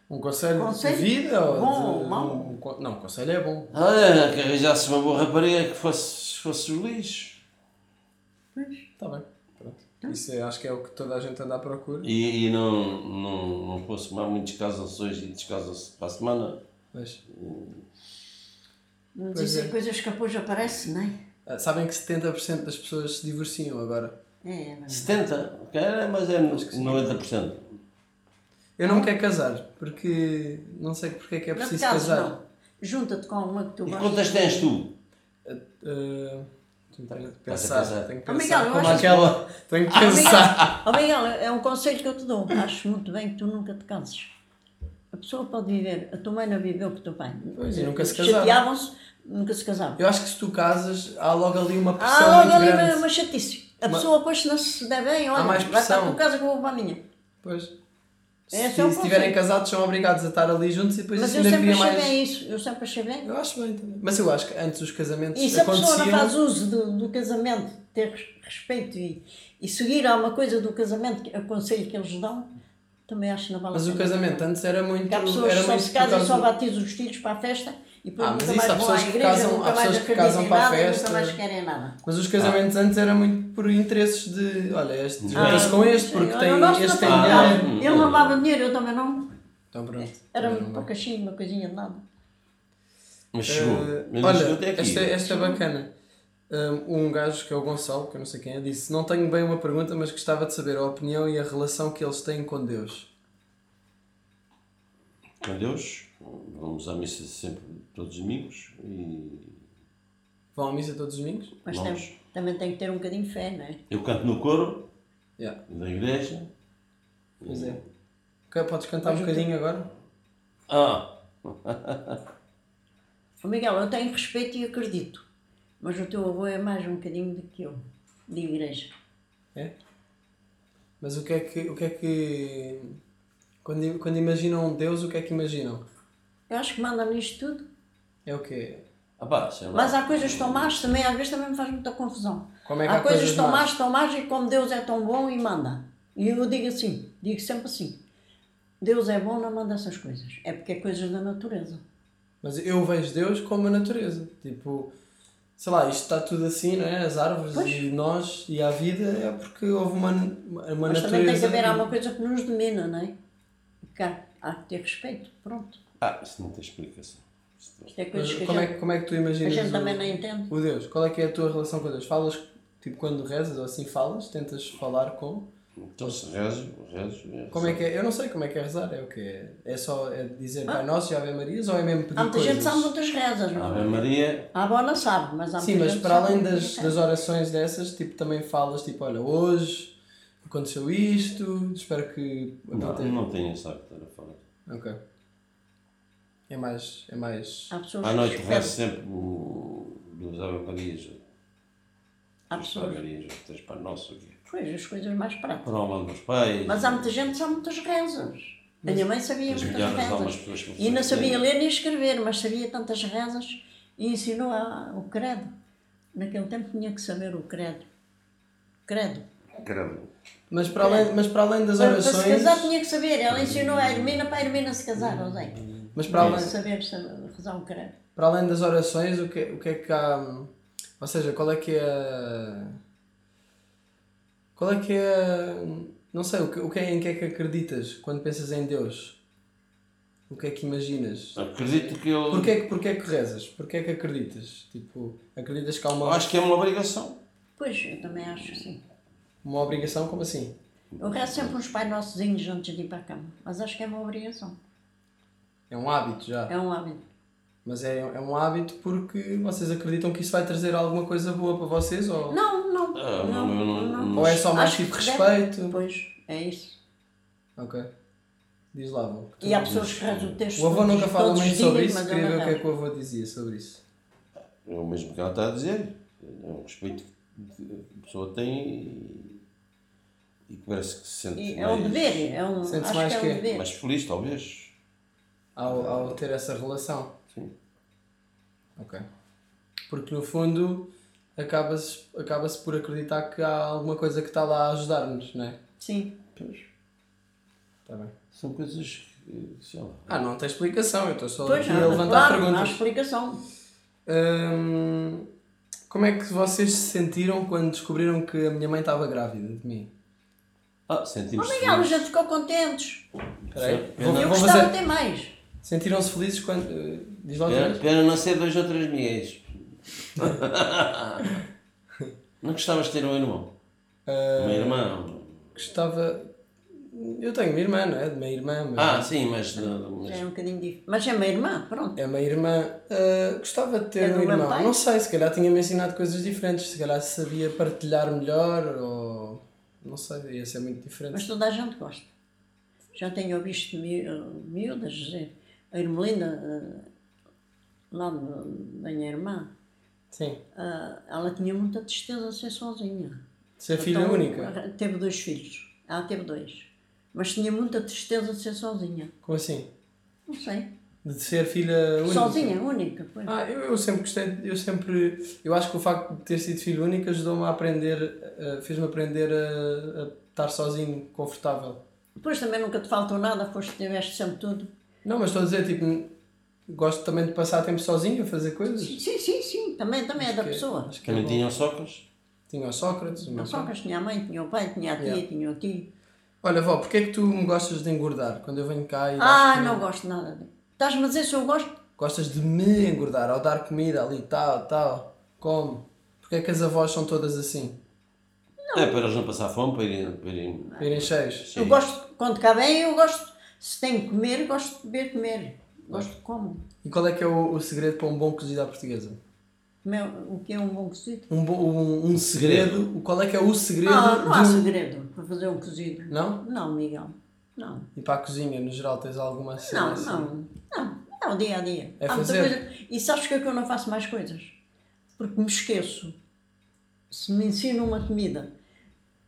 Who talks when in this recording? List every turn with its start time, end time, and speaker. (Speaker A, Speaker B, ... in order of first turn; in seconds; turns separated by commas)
Speaker A: 0.1-3.7, Speaker B: 0.6-2.5, Speaker C: 3.7-7.4, Speaker B: 8.6-8.9, Speaker A: 9.0-12.1, Speaker C: 12.0-16.6, Speaker A: 16.9-17.2, Speaker C: 17.3-17.9, Speaker B: 19.1-21.1, Speaker A: 19.3-19.7, Speaker A: 21.5-24.1, Speaker B: 24.4-25.2, Speaker C: 24.9-27.8, Speaker A: 26.5-27.2, Speaker A: 28.8-32.3, Speaker B: 31.6-34.7, Speaker C: 33.9-34.9, Speaker A: 35.4-40.8, Speaker C: 37.5-38.1, Speaker B: 38.3-39.1, Speaker C: 38.8-40.8, Speaker B: 40.0-44.3, Speaker B: 45.1-50.0, Speaker A: 47.5-48.6, Speaker A: 50.0-53.1, Speaker B: 52.0-57.0, Speaker A: 55.4-56.2, Speaker A: 57.4-57.7, Speaker A: 58.5-62.1, Speaker B: 58.5-59.4, Speaker B: 61.1-63.3, Speaker A: 63.2-66.3, Speaker B: 65.3-72.5, Speaker B: 73.1-74.4, Speaker A: 73.7-76.5, Speaker B: 75.1-82.0, Speaker A: 78.2-81.4, Speaker A: 82.0-87.7, Speaker C: 85.2-85.8, Speaker B: 85.3-89.3, Speaker C: 87.0-88.4, Speaker A: 89.7-90.9, Speaker B: 90.0-92.0, Speaker C: 93.3-95.1, Speaker A: 93.5-95.9, Speaker B: 95.3-95.6, Speaker A: 96.5-103.1, Speaker C: 105.4-109.6, Speaker A: 110.5-111.5, Speaker B: 111.6-113.8, Speaker C: 111.7-112.1, Speaker C: 113.9-114.8, Speaker C: 115.7-116.5, Speaker C: 117.4-117.8, Speaker A: 117.4-117.8, Speaker A: 118.5-119.9, Speaker B: 119.0-119.5, Speaker C: 120.7-122.2, Speaker B: 123.4-125.2, Speaker B: 125.8-128.9, Speaker A: 131.0-133.0, Speaker A: 133.6-135.8, Speaker B: 136.5-137.7, Speaker A: 138.3-138.8, Speaker C: 139.2-140.9, Speaker B: 139.7-148.0, Speaker A: 142.6-143.7, Speaker B: 148.8-151.8, Speaker A: 152.4-154.9, Speaker A: 155.6-161.9, Speaker B: 157.5-157.8, Speaker B: 160.9-163.1, Speaker B: 163.9-165.8, Speaker C: 166.0-167.9, Speaker B: 167.9-168.7, Speaker A: 168.1-175.5, Speaker B: 169.4-170.5, Speaker C: 175.9-177.8, Speaker A: 177.5-182.9, Speaker B: 182.2-186.9, Speaker C: 183.6-184.5, Speaker A: 185.6-193.2, Speaker C: 192.7-194.4, Speaker A: 194.7-195.0, Speaker A: 196.5-197.7, Speaker B: 197.7-198.8, Speaker C: 198.0-201.2, Speaker B: 202.5-203.0, Speaker C: 202.5-204.4, Speaker B: 204.5-205.7, Speaker C: 205.6-207.3, Speaker B: 206.7-215.5, Speaker C: 209.5-211.4, Speaker B: 216.1-217.8, Speaker B: 218.9-219.2, Speaker C: 219.6-220.1, Speaker A: 220.5-222.7, Speaker B: 220.8-221.1, Speaker B: 221.8-225.6, Speaker C: 223.3-224.3, Speaker C: 225.6-226.5, Speaker A: 225.9-226.5, Speaker B: 226.1-227.9, Speaker A: 228.2-232.8, Speaker A: 234.6-239.2, Speaker A: 240.3-246.2, Speaker C: 241.4-242.5, Speaker C: 246.0-247.2, Speaker B: 247.6-248.8, Speaker A: 249.4-250.6, Speaker C: 251.0-251.5, Speaker B: 251.0-254.6, Speaker A: 255.7-256.5, Speaker B: 256.5-257.0, Speaker A: 257.6-262.4, Speaker B: 262.3-266.8, Speaker C: 263.0-264.4, Speaker A: 264.1-265.8, Speaker A: 267.6-267.9, Speaker A: 268.7-269.7, Speaker B: 269.4-272.6, Speaker C: 269.6-270.4, Speaker A: 270.6-273.8, Speaker C: 274.6-279.4, Speaker C: 280.5-282.3, Speaker B: 281.4-283.7, Speaker A: 282.6-283.4, Speaker C: 283.5-284.7, Speaker A: 285.6-287.1, Speaker C: 285.7-286.2, Speaker A: 288.8-289.0, Speaker A: 289.9-295.6, Speaker B: 295.8-296.2, Speaker C: 296.4-296.6, Speaker A: 297.9-298.1, Speaker C: 298.3-300.1, Speaker A: 300.1-302.8, Speaker B: 301.4-303.4, Speaker C: 301.6-302.1, Speaker A: 304.1-305.3, Speaker A: 305.9-309.9, Speaker C: 310.9-312.1, Speaker B: 311.4-313.1, Speaker C: 313.5-314.4, Speaker A: 313.5-314.7, Speaker B: 314.0-315.3, Speaker A: 315.6-317.8, Speaker C: 317.4-319.4, Speaker C: 320.0-321.3, Speaker C: 322.4-323.5, Speaker A: 324.1-324.9, Speaker C: 324.4-325.3, Speaker A: 325.6-329.1, Speaker C: 328.8-330.2, Speaker B: 329.6-332.0, Speaker A: 332.0-341.3, Speaker B: 334.0-334.7, Speaker B: 341.1-342.1, Speaker B: 342.9-346.9, Speaker B: 347.9-349.5, Speaker A: 350.1-350.4, Speaker B: 350.6-353.2, Speaker A: 353.6-354.5, Speaker B: 353.8-359.1, Speaker A: 359.2-359.7, Speaker B: 360.3-360.7, Speaker A: 361.0-362.6, Speaker B: 362.1-363.3, Speaker A: 363.3-371.8, Speaker B: 372.2-374.7, Speaker A: 375.0-376.1, Speaker A: 376.7-379.0, Speaker B: 378.8-380.9, Speaker A: 380.2-381.4, Speaker C: 381.1-382.1, Speaker A: 382.5-383.7, Speaker B: 383.3-385.9, Speaker A: 386.4-389.9, Speaker B: 389.2-391.8, Speaker A: 392.0-397.8, Speaker B: 398.6-399.0, Speaker C: 398.7-401.8, Speaker A: 400.8-401.5, Speaker B: 401.6-406.6, Speaker A: 406.8-409.2, Speaker B: 409.8-411.3, Speaker A: 411.3-414.7, Speaker C: 412.1-412.8, Speaker B: 413.8-417.9, Speaker A: 416.1-416.4, Speaker A: 418.0-420.3, Speaker B: 419.6-424.6, Speaker A: 422.0-422.6, Speaker B: 425.2-426.1, Speaker B: 427.1-428.5